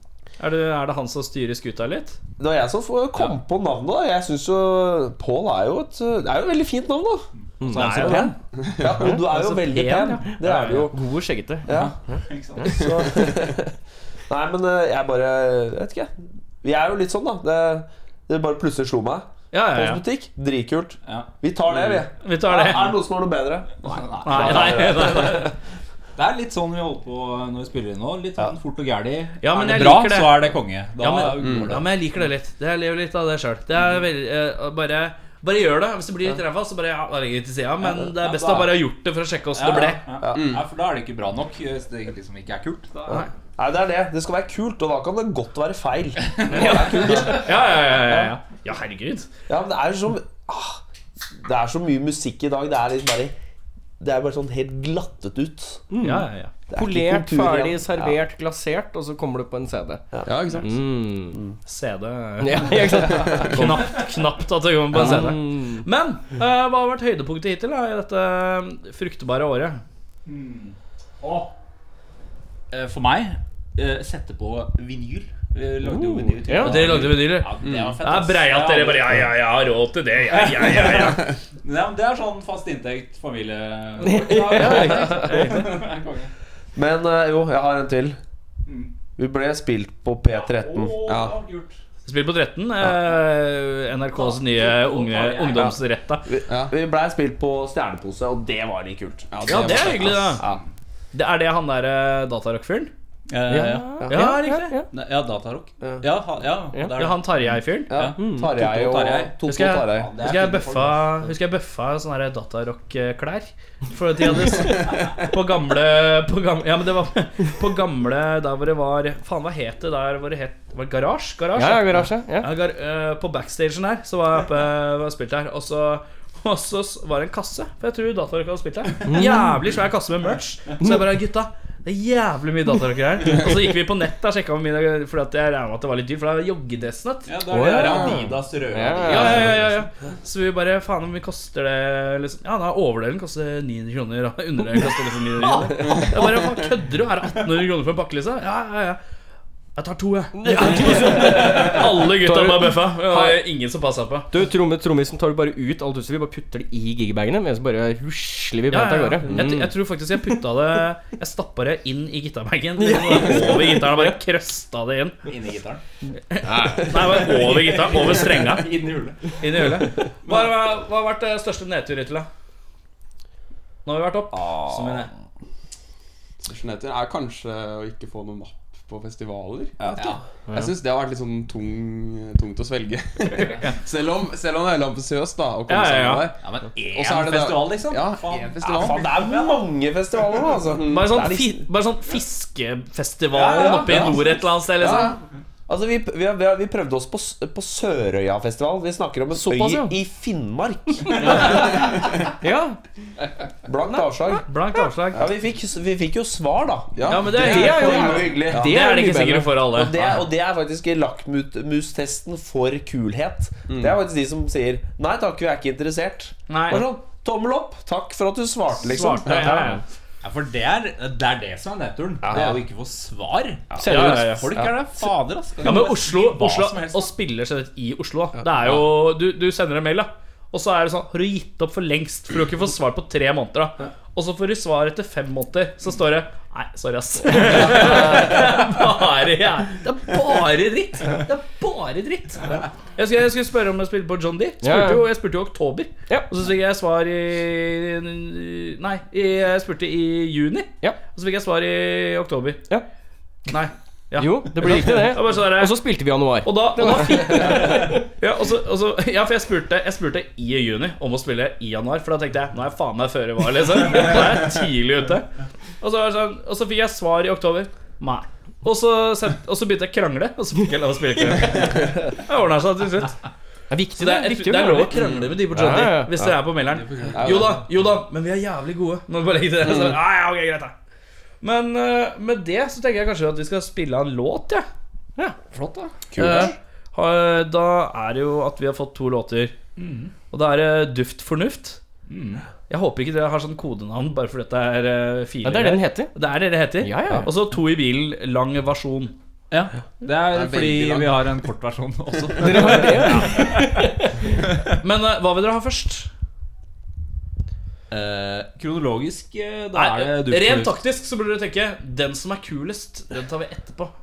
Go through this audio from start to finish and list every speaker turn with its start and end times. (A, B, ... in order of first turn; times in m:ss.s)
0:00.4-0:02.2 A
0:02.4-0:07.2 B
0:07.6-0:08.3 C
0:07.6-0:08.3 D
0:07.7-0:08.3 A
0:07.8-0:11.0 B
0:08.8-0:09.2 E
0:09.0-0:10.9 A
0:10.9-0:11.7 C
0:11.6-0:11.9 B
0:11.7-0:12.7 D
0:12.6-0:13.7 B
0:14.3-0:25.5 B
0:19.5-0:20.0 A
0:21.0-0:22.0 D
0:22.2-0:23.0 A
0:23.8-0:25.3 D
0:24.2-0:25.5 A
0:26.2-0:31.9 D
0:29.4-0:40.0 A
0:31.4-0:31.8 E
0:38.3-0:38.6 B
0:39.5-0:43.1 D
0:40.2-0:40.4 B
0:40.3-0:40.6 E
0:43.1-0:48.3 B
0:46.3-0:47.2 D
0:46.5-0:49.3 A
0:49.5-0:50.8 B
0:51.4-0:53.3 B
0:54.0-0:55.9 B
0:55.9-1:00.0 C
0:56.0-0:56.5 A
0:56.7-0:58.2 B
1:00.2-1:00.7 E
1:00.6-1:01.4 C
1:01.6-1:09.8 A
1:02.4-1:03.6 C
1:04.9-1:05.8 C
1:10.2-1:11.5 D
1:12.7-1:19.3 D
1:15.8-1:17.2 C
1:16.6-1:21.2 A
1:17.6-1:18.0 E
1:20.3-1:26.3 D
1:24.0-1:25.5 C
1:24.5-1:25.7 A
1:26.7-1:28.2 B
1:28.6-1:28.9 D
1:29.2-1:31.1 B
1:30.3-1:31.8 D
1:31.0-1:31.4 E
1:32.0-1:36.2 A
1:34.1-1:35.8 D
1:35.6-1:39.7 B
1:36.5-1:36.7 E
1:39.3-1:40.4 E
1:39.4-1:40.4 A
1:41.1-1:42.9 A
1:43.3-1:44.1 D
1:43.5-1:44.9 C
1:44.1-1:44.8 A
1:44.9-1:51.2 D
1:45.8-1:46.1 B
1:46.9-1:47.9 A
1:47.9-1:50.2 B
1:48.2-1:48.5 C
1:49.4-2:17.7 A
2:01.5-2:02.5 C
2:09.1-2:09.6 C
2:17.2-2:19.6 D
2:17.5-2:19.6 C
2:19.0-2:29.0 A
2:29.8-2:34.3 A
2:30.3-2:33.4 C
2:34.3-2:39.8 C
2:38.7-2:45.2 A
2:42.8-2:44.1 C
2:45.2-2:45.8 D
2:46.3-2:48.7 A
2:47.2-2:49.3 D
2:49.4-2:52.3 A
2:50.2-2:50.5 D
2:53.8-2:55.1 A
2:54.7-2:55.0 D
2:56.4-3:09.1 E
2:59.9-3:00.2 D
3:03.4-3:03.7 A
3:05.7-3:06.3 A
3:06.4-3:09.6 D
3:08.6-3:11.7 B
3:10.8-3:15.2 A
3:13.3-3:14.1 D
3:13.9-3:14.2 E
3:14.8-3:15.1 E
3:15.7-3:21.8 B
3:19.3-3:20.0 C
3:21.3-3:21.6 C
3:22.4-3:22.8 C
3:23.6-3:24.4 B
3:23.9-3:25.3 A
3:25.1-3:28.9 B
3:26.9-3:27.8 E
3:27.1-3:30.1 A
3:27.3-3:29.6 C
3:29.7-3:39.8 B
3:33.7-3:34.0 E
3:36.5-3:36.8 A
3:38.8-3:39.8 A
3:40.2-3:47.1 D
3:42.2-3:42.6 B
3:43.8-3:44.5 C
3:43.8-3:44.5 A
3:45.6-4:12.6 A
4:04.6-4:05.1 C
4:13.5-4:15.8 A
4:14.2-4:18.0 C
4:16.4-4:25.3 A
4:25.8-4:33.2 A
4:33.7-4:36.1 C
4:34.0-4:40.7 A
4:36.8-4:37.2 D
4:37.1-4:37.6 E
4:41.4-4:44.6 A
4:45.5-4:45.9 D
4:46.2-4:49.5 A
4:46.2-4:46.5 B
4:46.2-4:46.5 E
4:49.8-4:50.1 D
4:50.3-4:51.8 A
4:52.1-4:52.4 D
4:52.7-4:59.1 A
4:55.4-4:56.1 C
4:56.8-4:57.3 C
4:59.5-5:03.7 D
5:00.2-5:01.3 E
5:02.4-5:04.2 C
5:03.1-5:03.5 A
5:04.8-5:06.1 A
5:07.9-5:10.7 D
5:09.7-5:13.9 A